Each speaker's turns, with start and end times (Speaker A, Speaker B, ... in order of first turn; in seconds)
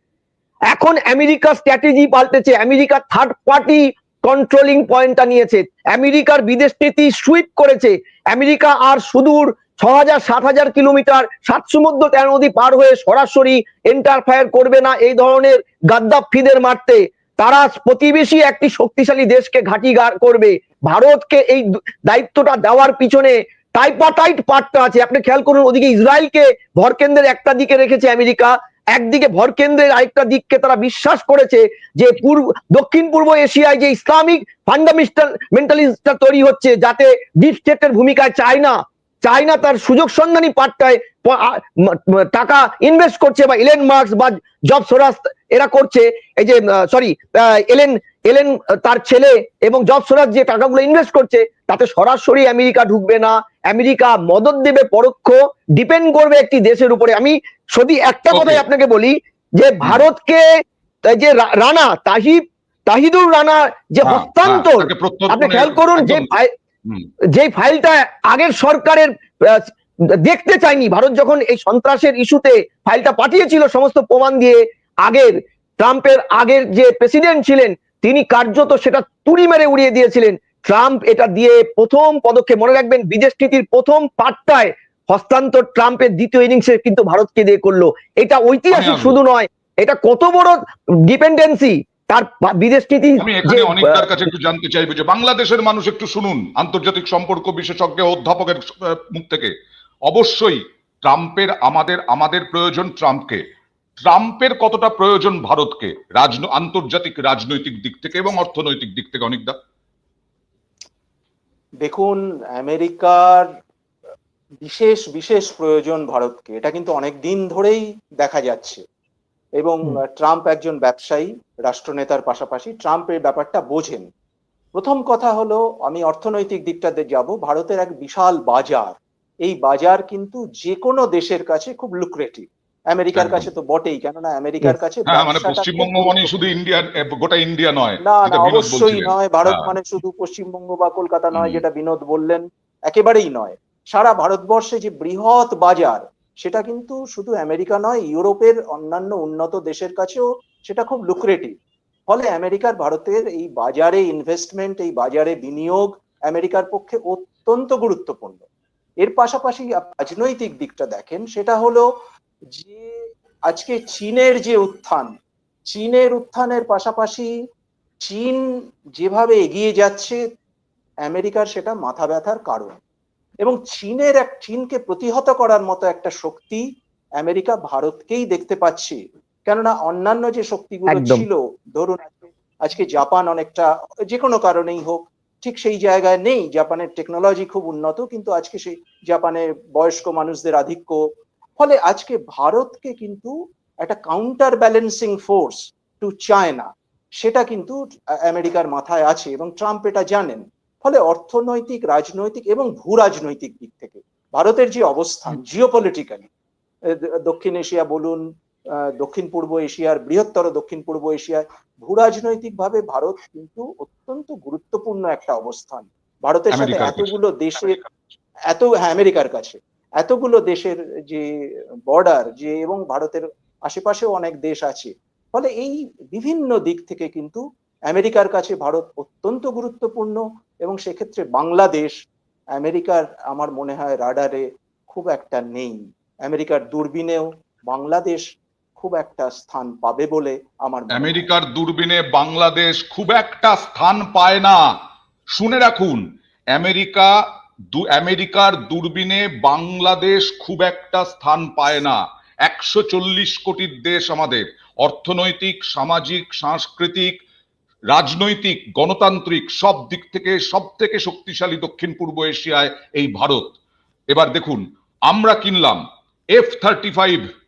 Speaker A: 0.7-60.4, 61.1-66.5, 67.3-94.3, 180.9-181.2
Speaker B: 58.3-58.6, 64.0-66.3, 88.7-89.2, 93.2-99.5, 100.1-103.4, 104.0-109.6, 133.2-133.5, 135.1-139.7, 141.3-141.6, 216.5-218.1, 240.9-244.6, 245.3-247.1, 247.7-257.1, 257.9-263.6, 264.1-265.8, 266.3-267.2
Speaker C: 111.8-113.5, 114.6-118.8, 119.6-124.1, 124.8-136.6, 138.0-151.5, 152.1-158.5, 159.0-161.8, 162.6-162.9, 163.5-165.1, 165.7-167.3, 168.1-168.4, 169.0-170.2, 171.1-172.8, 173.4-176.6, 177.2-191.0, 191.6-196.7, 197.2-197.8, 198.3-206.3, 207.2-208.2, 209.0-217.8, 218.5-221.3, 221.9-231.9, 232.6-238.2, 238.8-241.3